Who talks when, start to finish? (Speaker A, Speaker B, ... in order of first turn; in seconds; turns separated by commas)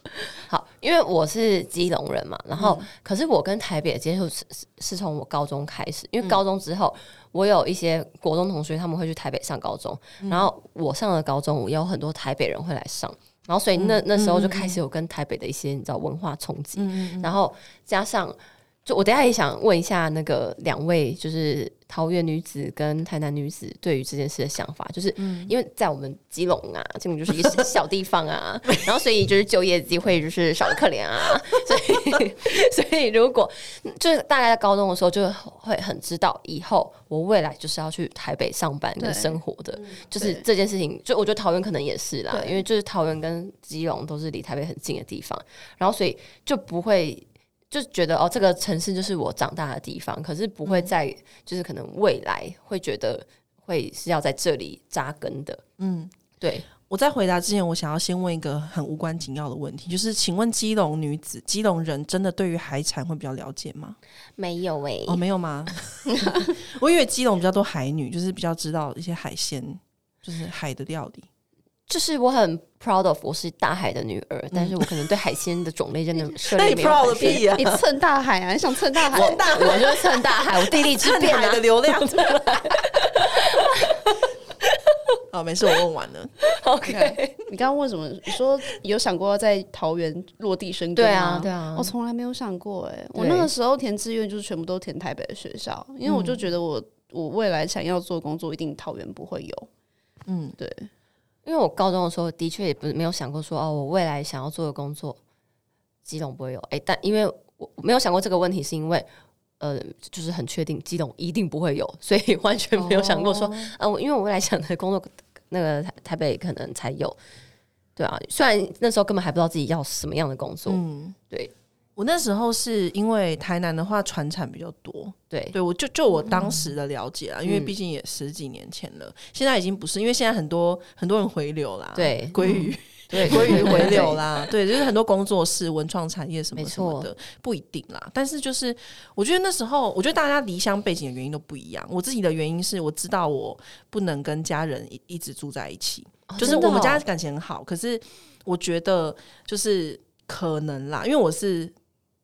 Speaker A: 0.1-55.6, Speaker B: 2.6-2.9, Speaker B: 10.2-10.5, Speaker B: 13.8-14.8, Speaker B: 16.8-17.3, Speaker B: 25.2-25.5, Speaker C: 39.0-39.4, Speaker C: 40.2-40.4, Speaker C: 42.3-42.6, Speaker B: 50.7-50.9, Speaker B: 55.8-56.1, Speaker A: 56.4-56.7, Speaker B: 56.8-64.0, Speaker A: 64.4-65.2, Speaker B: 65.1-71.3, Speaker C: 66.2-66.5, Speaker A: 71.9-77.5, Speaker B: 74.5-74.9, Speaker B: 76.5-77.8, Speaker C: 77.2-79.9, Speaker B: 79.0-82.8, Speaker A: 79.1-84.1, Speaker B: 85.3-86.4, Speaker A: 86.5-87.4, Speaker C: 86.9-99.7, Speaker A: 91.0-91.9, Speaker A: 93.2-93.5, Speaker B: 96.1-96.4, Speaker B: 100.3-100.6, Speaker C: 100.6-100.9, Speaker A: 101.5-105.2, Speaker A: 106.0-109.1, Speaker A: 109.6-117.2, Speaker B: 112.8-113.7, Speaker A: 118.0-121.5, Speaker B: 120.7-121.2, Speaker B: 122.0-151.8, Speaker A: 125.3-125.6, Speaker A: 127.5-127.7, Speaker A: 132.0-134.2, Speaker A: 136.6-137.1, Speaker A: 146.3-147.0